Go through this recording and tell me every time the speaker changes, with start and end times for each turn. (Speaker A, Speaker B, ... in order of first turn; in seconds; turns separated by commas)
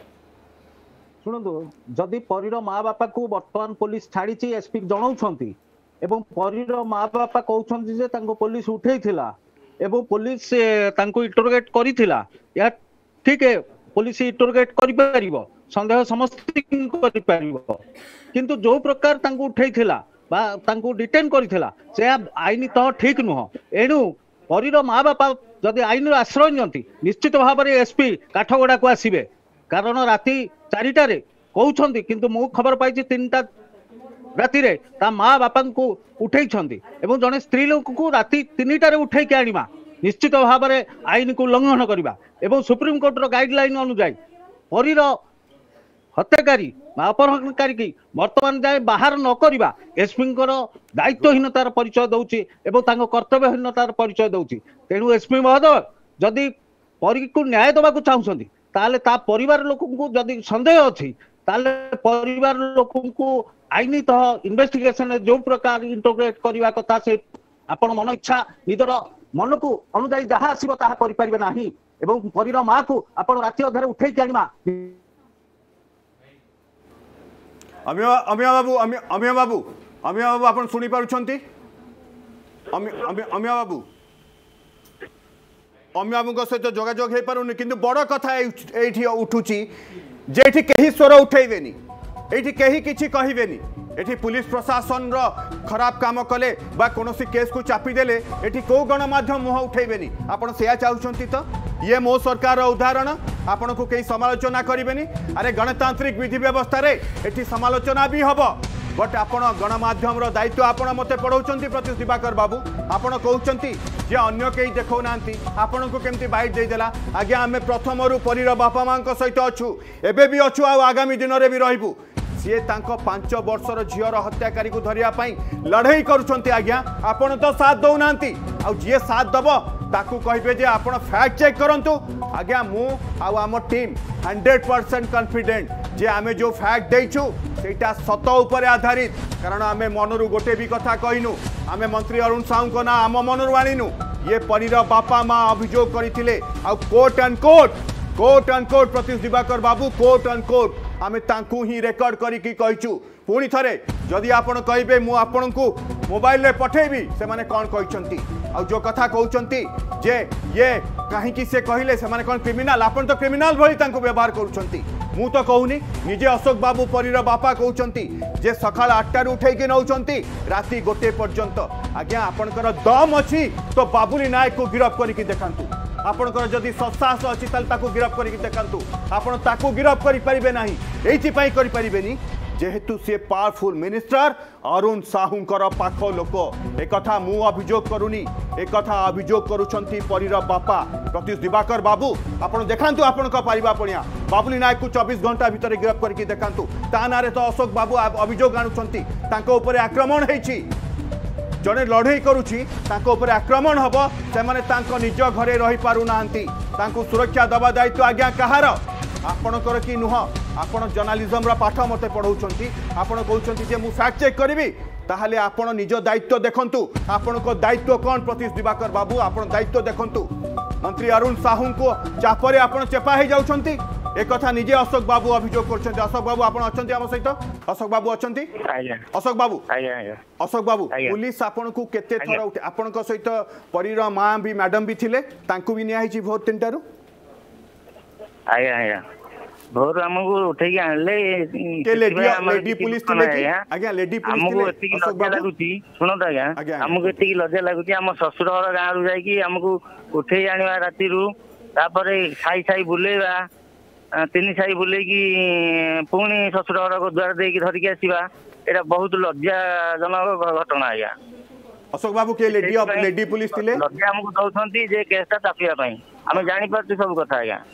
Speaker A: 1.2-17.8, Speaker A: 18.3-33.5, Speaker A: 34.4-44.2, Speaker A: 44.7-45.2, Speaker A: 46.2-56.5, Speaker A: 57.0-75.0, Speaker B: 77.9-81.4, Speaker B: 82.7-83.8, Speaker B: 85.9-89.7, Speaker B: 90.3-91.8, Speaker B: 92.3-200.7, Speaker B: 201.6-228.5, Speaker C: 228.6-229.1, Speaker B: 229.1-229.6, Speaker C: 229.7-230.2, Speaker B: 230.4-236.8, Speaker C: 230.9-231.2, Speaker C: 238.5-239.0, Speaker C: 239.7-243.7, Speaker B: 241.8-245.5, Speaker C: 244.3-253.5, Speaker B: 246.6-247.2, Speaker C: 254.2-261.1, Speaker B: 261.9-263.8, Speaker C: 262.5-267.6